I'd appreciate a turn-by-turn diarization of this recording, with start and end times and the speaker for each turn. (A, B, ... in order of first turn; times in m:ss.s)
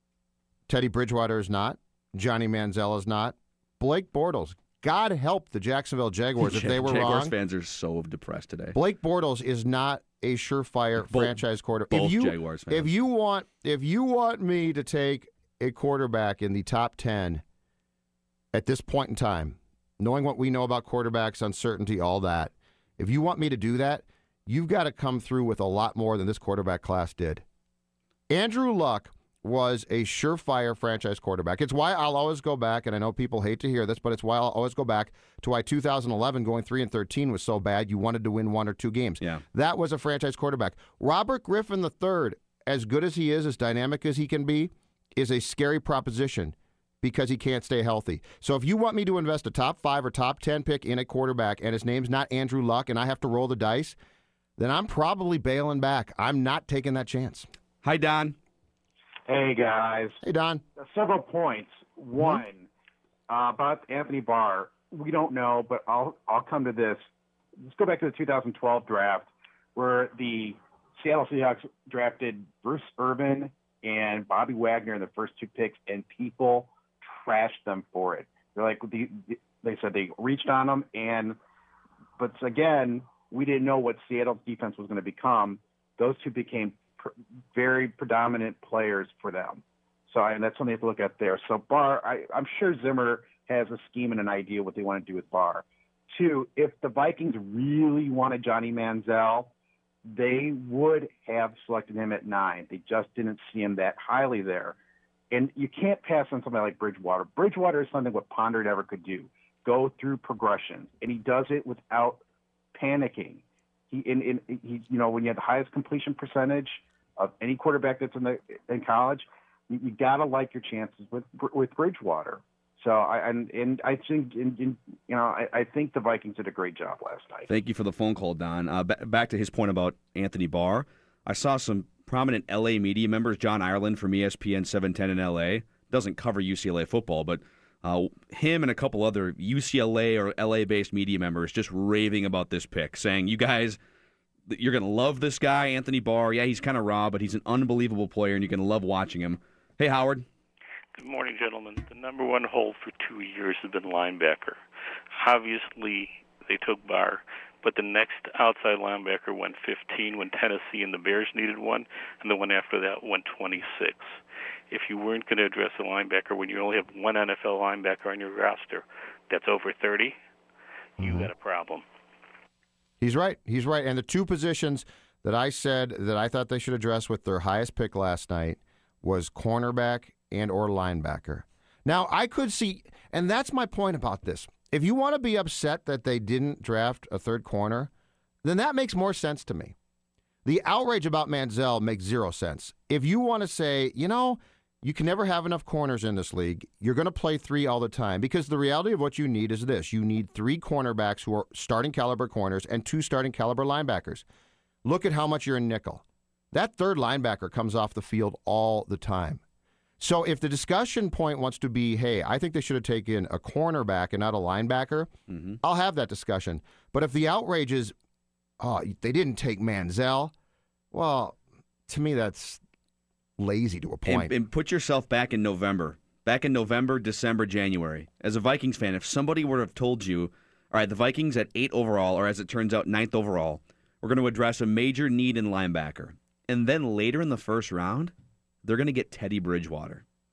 0:00.7-0:07.3 A
0:06.4-0:08.8 B
0:08.7-0:17.4 A
0:11.1-0:11.4 B
0:11.9-0:12.9 B
0:18.5-0:27.4 A
0:28.3-0:54.0 A
0:54.6-0:57.5 A
0:57.8-0:58.4 B
0:59.3-1:00.2 C
1:00.2-1:00.6 A
1:00.8-1:02.7 C
1:03.3-1:07.0 C
1:07.7-1:21.4 C
1:22.2-1:39.5 C
1:40.1-1:44.8 C
1:45.3-1:52.2 C
1:52.7-2:07.5 C
2:07.5-2:23.8 B
2:24.5-2:30.3 B
2:31.0-2:34.6 D
2:35.2-2:44.2 D
2:44.7-2:50.2 D
2:51.0-2:51.3 A
2:51.0-2:51.8 D
2:53.0-3:07.9 A
3:08.4-3:09.8 A
3:10.4-3:24.2 A
3:24.8-3:29.4 A
3:30.0-3:35.1 A
3:35.3-3:35.6 B
3:35.6-3:37.9 A
3:38.6-3:40.3 A
3:40.9-3:42.6 A
3:43.4-3:44.3 A
3:44.1-3:58.1 B
3:58.6-4:00.0 B